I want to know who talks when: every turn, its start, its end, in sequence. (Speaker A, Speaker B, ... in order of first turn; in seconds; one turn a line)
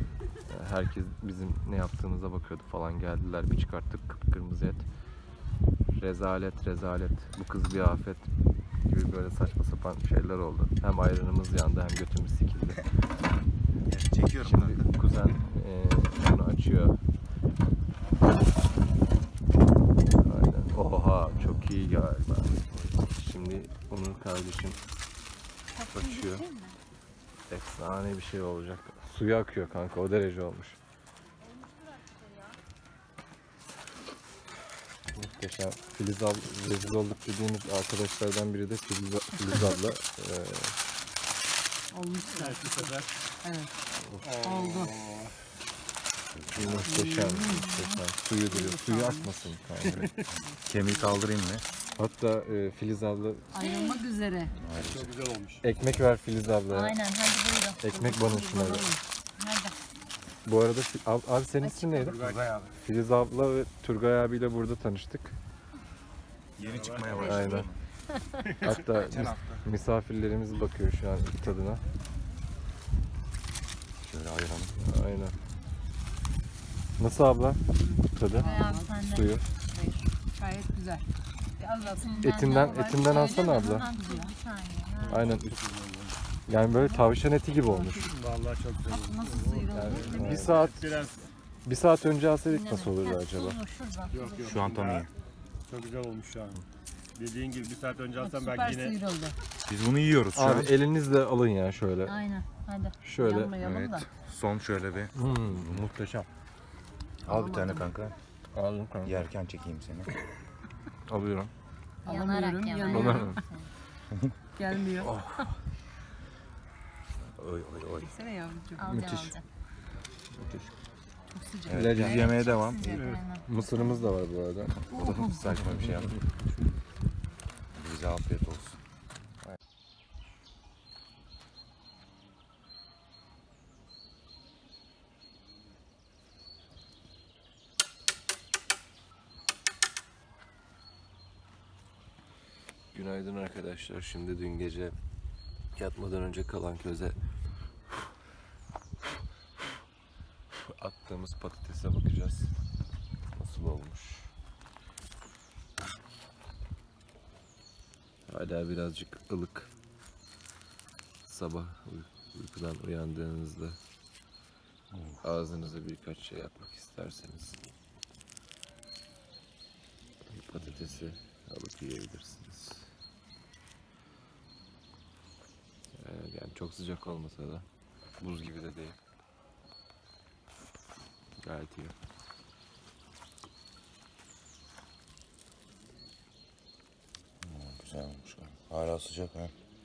Speaker A: 0.5-4.8
Speaker A: 5.9-8.3
Speaker A: 8.8-12.8
Speaker B: 13.9-14.9
Speaker A: 14.4-17.0
Speaker A: 20.2-24.8
Speaker B: 22.7-23.0
Speaker C: 25.8-26.8
Speaker D: 25.9-26.4
Speaker B: 25.9-26.4
Speaker A: 27.5-30.8
Speaker A: 35.1-40.8
Speaker D: 41.9-43.7
Speaker E: 42.3-43.2
Speaker A: 44.0-44.3
Speaker E: 44.2-45.3
Speaker D: 44.4-44.9
Speaker B: 46.3-47.2
Speaker A: 46.5-50.1
Speaker D: 46.8-49.3
Speaker B: 49.8-51.7
Speaker D: 50.5-51.0
Speaker A: 52.0-53.5
Speaker D: 53.5-54.5
Speaker C: 53.6-54.0
Speaker B: 54.6-55.1
Speaker E: 54.8-55.6
Speaker A: 55.6-57.0
Speaker C: 56.7-57.9
Speaker A: 57.8-59.0
Speaker D: 57.9-59.0
Speaker C: 59.4-59.8
Speaker A: 60.4-62.2
Speaker D: 61.6-62.1
Speaker E: 62.0-62.5
Speaker B: 62.0-62.8
Speaker A: 62.8-65.3
Speaker B: 66.6-67.8
Speaker E: 66.6-67.5
Speaker A: 67.1-67.7
Speaker D: 67.2-67.7
Speaker A: 68.5-71.8
Speaker B: 68.7-69.7
Speaker B: 74.0-74.8
Speaker A: 74.8-75.3
Speaker A: 77.0-79.5
Speaker D: 77.6-79.0
Speaker C: 78.3-79.3
Speaker D: 79.7-81.0
Speaker D: 81.6-84.3
Speaker C: 81.8-85.3
Speaker A: 82.2-83.9
Speaker E: 85.0-86.2
Speaker A: 85.1-85.6
Speaker D: 85.1-85.4
Speaker A: 86.5-88.1
Speaker D: 86.7-88.0
Speaker E: 88.0-91.2
Speaker D: 88.9-90.4
Speaker A: 89.7-90.9
Speaker A: 91.6-93.6
Speaker C: 92.5-94.6
Speaker E: 94.1-95.1
Speaker B: 94.4-95.1
Speaker E: 95.7-96.6
Speaker E: 97.1-99.0
Speaker D: 98.2-99.3
Speaker B: 99.7-100.7
Speaker A: 100.3-102.2
Speaker C: 102.0-103.0
Speaker A: 103.0-103.6
Speaker D: 103.2-104.0
Speaker B: 103.6-105.9
Speaker A: 105.1-106.3
Speaker B: 107.2-108.2
Speaker D: 107.3-107.9
Speaker A: 108.5-109.2
Speaker B: 109.0-110.1
Speaker A: 111.0-111.5
Speaker D: 112.0-113.5
Speaker C: 112.0-113.7
Speaker A: 112.9-113.4
Speaker D: 114.6-115.2
Speaker B: 115.0-115.3
Speaker B: 117.4-118.1
Speaker D: 118.0-119.1
Speaker C: 118.8-119.4
Speaker A: 118.8-119.3
Speaker A: 120.3-120.7
Speaker D: 121.3-122.0
Speaker B: 121.7-123.2
Speaker A: 121.7-122.4
Speaker C: 121.9-123.9
Speaker A: 123.4-124.8
Speaker B: 124.9-126.2
Speaker D: 124.9-125.5
Speaker A: 125.5-126.2
Speaker B: 127.7-128.8
Speaker A: 142.9-144.9
Speaker A: 145.7-147.2
Speaker A: 150.6-152.5
Speaker A: 153.3-154.3
Speaker A: 158.3-159.7
Speaker A: 161.2-163.8
Speaker B: 164.9-165.2
Speaker A: 165.2-167.6
Speaker A: 170.3-172.9
Speaker A: 175.9-177.7
Speaker A: 178.2-179.0
Speaker A: 181.4-181.9
Speaker B: 187.4-189.5